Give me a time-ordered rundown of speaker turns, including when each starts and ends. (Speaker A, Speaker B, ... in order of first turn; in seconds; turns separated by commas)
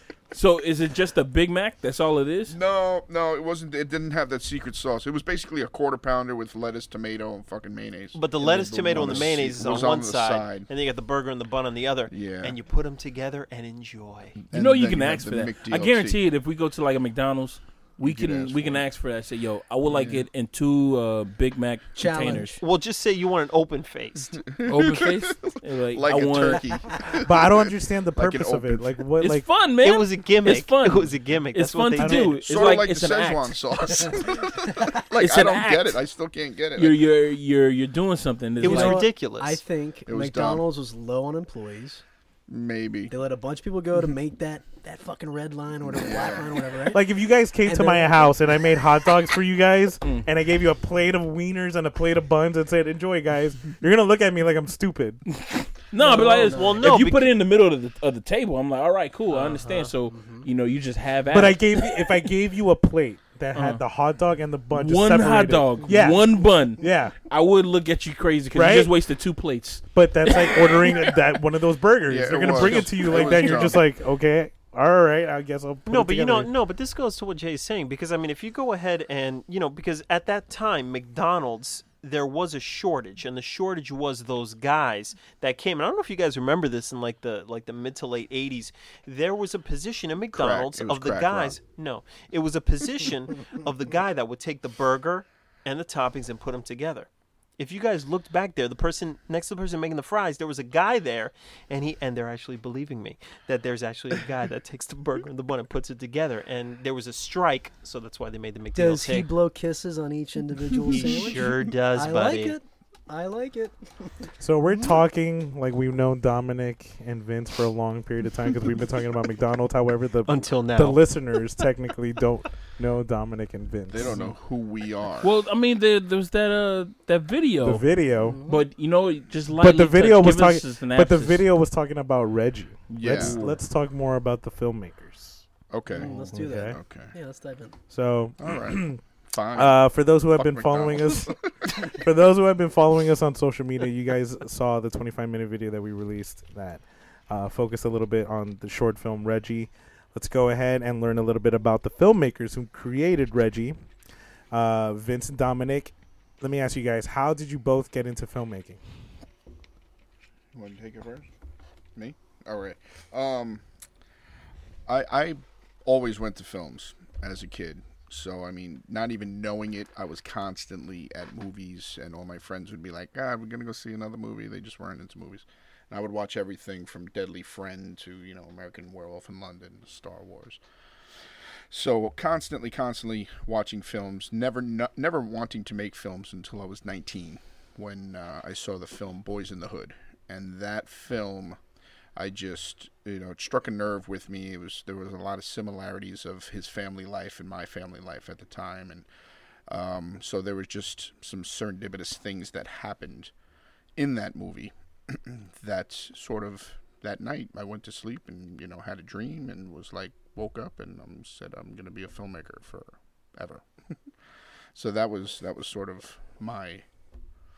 Speaker A: 0.3-2.6, Speaker B: 2.5-10.7, Speaker C: 8.1-14.4, Speaker B: 12.1-12.6, Speaker B: 14.5-16.2, Speaker A: 14.5-22.6, Speaker B: 18.0-18.8, Speaker B: 19.9-20.2, Speaker D: 21.9-22.6, Speaker C: 22.5-24.4, Speaker B: 24.4-29.0, Speaker A: 24.6-26.9, Speaker E: 27.2-29.4, Speaker A: 29.2-34.0, Speaker C: 29.8-32.5, Speaker E: 32.0-32.3, Speaker B: 32.4-37.0, Speaker D: 34.0-34.9, Speaker A: 35.2-36.0, Speaker A: 36.7-39.0, Speaker C: 38.6-39.6, Speaker D: 38.6-42.0, Speaker B: 40.0-40.6, Speaker B: 42.5-43.1, Speaker D: 43.1-47.0, Speaker B: 45.9-46.7, Speaker E: 46.9-55.2, Speaker D: 47.6-48.4, Speaker A: 50.0-50.3, Speaker A: 55.3-62.2, Speaker D: 56.0-57.0, Speaker C: 56.1-57.3, Speaker C: 59.3-59.9, Speaker D: 60.1-60.5, Speaker E: 61.3-67.2, Speaker A: 63.5-63.8, Speaker A: 64.7-69.8, Speaker E: 68.5-68.9, Speaker E: 69.9-76.5, Speaker B: 72.1-73.8, Speaker A: 72.5-72.9, Speaker C: 75.9-109.3, Speaker B: 90.3-91.5, Speaker D: 108.7-114.3, Speaker C: 110.9-112.6, Speaker E: 114.4-124.2, Speaker C: 120.2-121.1, Speaker B: 123.9-125.3, Speaker A: 124.0-124.3, Speaker A: 125.2-127.9, Speaker E: 127.6-128.4, Speaker D: 128.2-128.7, Speaker A: 128.4-131.4, Speaker E: 129.6-135.4, Speaker B: 132.9-133.4, Speaker A: 133.0-133.5, Speaker B: 135.7-137.1, Speaker D: 135.9-137.8, Speaker E: 135.9-136.8, Speaker E: 137.9-139.0, Speaker B: 138.4-139.8, Speaker E: 139.5-153.8, Speaker B: 140.3-142.0, Speaker E: 154.5-158.8, Speaker B: 160.5-161.3, Speaker B: 161.9-163.6, Speaker B: 164.9-180.6, Speaker B: 181.7-191.6, Speaker B: 192.2-199.1, Speaker B: 199.7-203.3, Speaker B: 203.9-213.6, Speaker B: 214.7-216.8